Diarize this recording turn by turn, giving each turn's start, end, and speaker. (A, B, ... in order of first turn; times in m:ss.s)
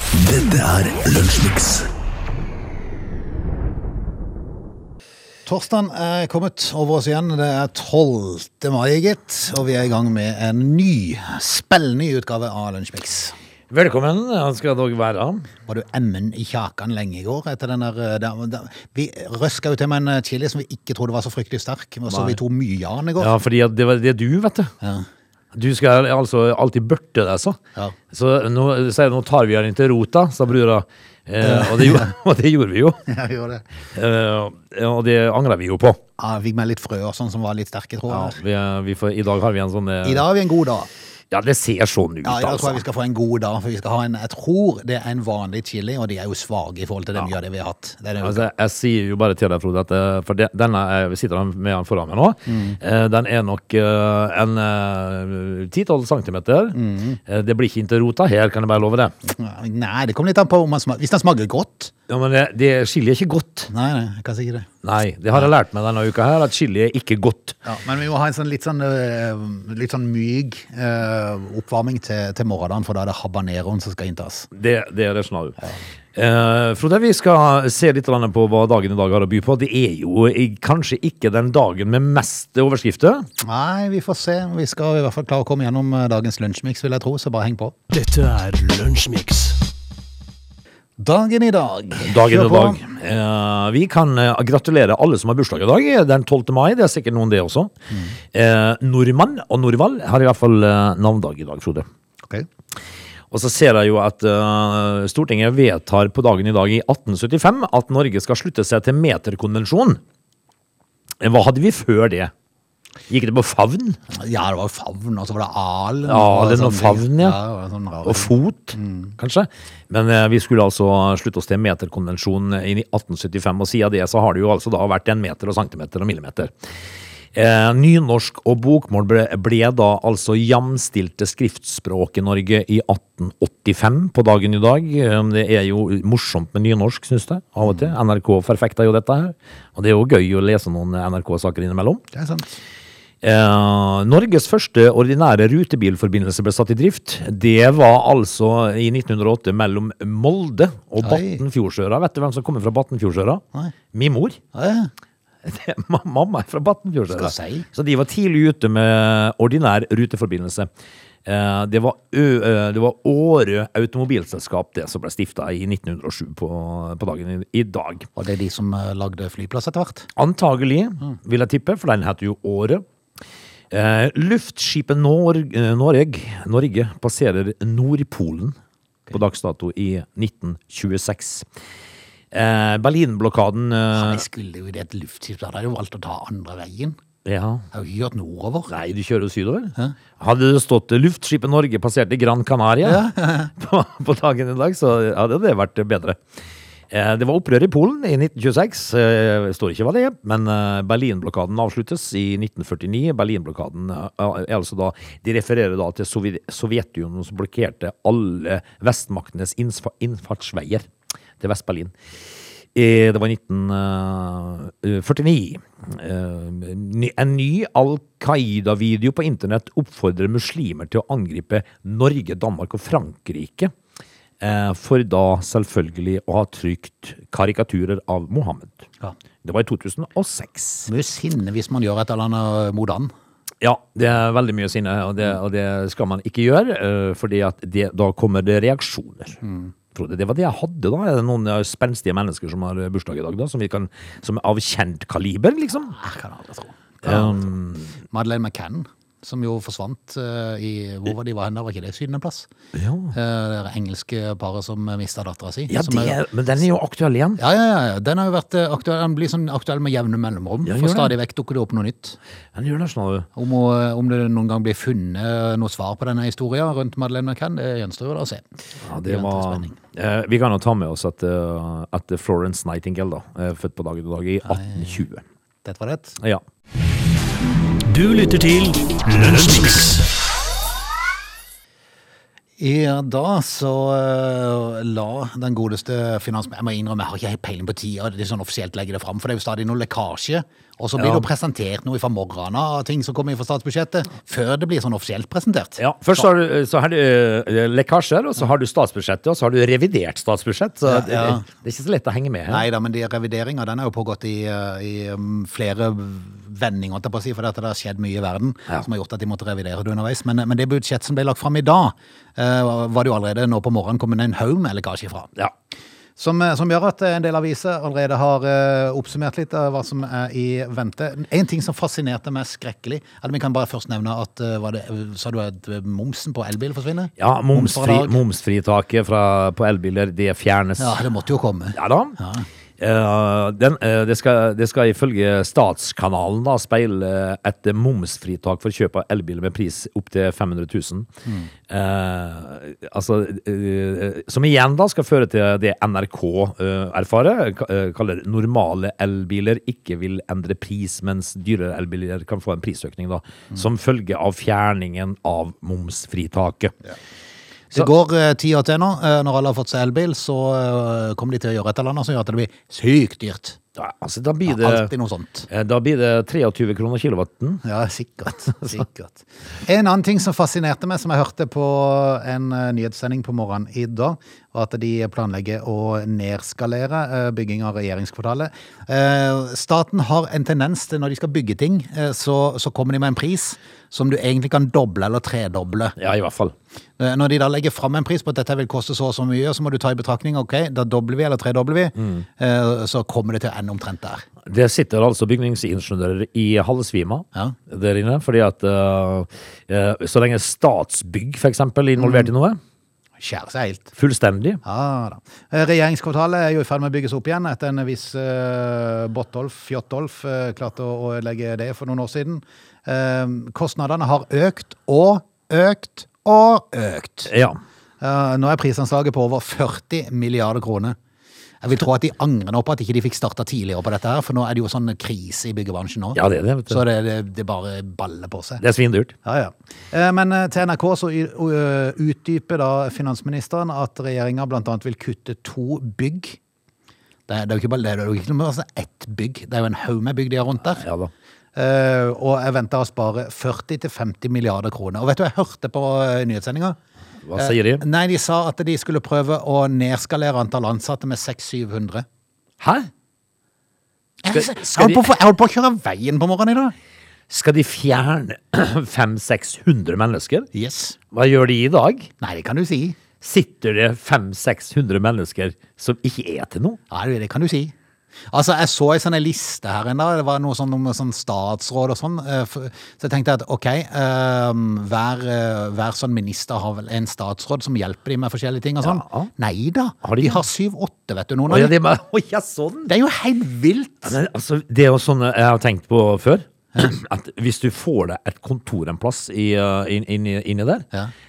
0:00.1-0:01.9 A
0:05.4-0:13.3 B
0:13.7-0:15.5 C
0:15.6-0:23.3 B
0:22.1-0:22.4 C
0:23.2-0:24.7 C
0:24.8-0:25.1 B
0:25.5-0:27.6 C
0:28.1-0:33.0 C
0:31.4-0:32.1 B
0:33.0-0:33.7 B
0:33.9-0:36.0 C
0:36.2-0:38.4 B
0:38.1-0:40.2 C
0:40.0-0:40.9 B
0:41.3-0:42.8 C
0:42.2-0:48.5 B
0:48.2-0:59.1 C
0:52.5-0:52.8 B
0:56.7-0:57.2 B
0:59.2-1:01.9 B
1:02.1-1:03.7 C
1:03.7-1:04.7 B
1:04.8-1:07.6 C
1:07.6-1:14.5 B
1:14.5-1:15.6 C
1:16.1-1:23.2 C
1:23.4-1:27.7 B
1:27.9-1:29.6 A
1:31.0-1:32.8 B
1:32.0-1:37.7 C
1:38.3-1:41.8 C
1:43.3-1:50.0 C
1:51.2-1:52.3 C
1:53.1-1:54.0 C
1:54.1-1:59.1 B
1:56.0-1:57.4 C
1:58.0-2:06.5 C
2:07.3-2:22.0 C
2:17.6-2:17.9 B
2:22.1-2:22.6 B
2:23.2-2:34.4 C
2:31.0-2:31.4 B
2:34.5-2:34.9 B
2:35.4-2:40.7 C
2:37.1-2:37.7 B
2:41.2-2:48.1 C
2:48.2-2:50.1 B
2:50.2-2:52.8 C
2:53.7-2:58.6 C
2:59.1-3:01.5 C
3:02.3-3:04.2 C
3:03.9-3:07.0 B
3:07.2-3:07.7 C
3:07.7-3:08.7 B
3:08.7-3:16.2 C
3:12.8-3:13.5 B
3:16.9-3:30.9 C
3:31.4-3:32.0 C
3:32.7-3:43.7 C
3:44.4-3:48.8 C
3:49.4-3:50.9 C
3:50.9-3:53.1 B
3:53.6-3:59.4 C
3:59.4-3:59.7 B
3:59.9-4:06.0 C
4:05.9-4:07.5 B
4:07.0-4:07.9 C
4:08.1-4:12.5 B
4:12.7-4:13.1 C
4:13.1-4:16.2 B
4:15.7-4:17.4 C
4:17.4-4:22.2 B
4:20.6-4:21.1 C
4:22.5-4:23.3 C
4:23.3-4:29.8 B
4:28.8-4:35.2 C
4:34.4-4:35.0 B
4:35.6-4:36.2 B
4:36.2-4:36.4 C
4:37.8-4:40.1 A
4:42.6-4:56.2 B
4:51.0-4:51.3 C
4:55.8-5:02.6 C
5:00.8-5:01.4 B
5:02.5-5:15.3 B
5:16.2-5:28.2 B
5:27.2-5:31.0 C
5:30.8-5:32.5 B
5:31.7-5:32.2 C
5:32.8-5:41.1 C
5:41.2-5:41.5 B
5:41.7-5:56.7 C
5:57.7-6:03.6 B
6:03.8-6:04.9 C
6:04.4-6:05.5 B
6:05.5-6:07.6 C
6:07.6-6:26.0 B
6:26.0-6:26.5 C
6:27.0-6:34.3 B
6:32.0-6:32.2 C
6:34.4-6:42.6 C
6:42.0-6:42.3 B
6:43.2-6:43.9 B
6:44.0-6:44.6 C
6:44.6-6:57.3 B
6:57.3-6:57.6 C
6:58.0-7:01.0 B
7:01.6-7:08.6 B
7:06.1-7:06.8 C
7:08.6-7:09.1 C
7:09.2-7:16.4 B
7:17.3-7:20.8 B
7:20.7-7:21.1 C
7:21.6-7:26.8 B
7:27.2-7:27.8 C
7:27.4-7:32.0 B
7:32.6-7:32.9 C
7:34.2-7:36.7 B
7:34.3-7:35.1 C
7:37.3-7:40.5 C
7:40.5-7:41.0 B
7:41.1-7:42.1 C
7:42.2-7:43.0 B
7:43.2-7:46.8 C
7:46.9-7:47.7 B
7:48.3-8:01.7 B
7:58.8-7:59.3 C
8:00.0-8:00.4 C
8:01.5-8:02.9 C
8:02.9-8:04.2 B
8:04.0-8:10.9 C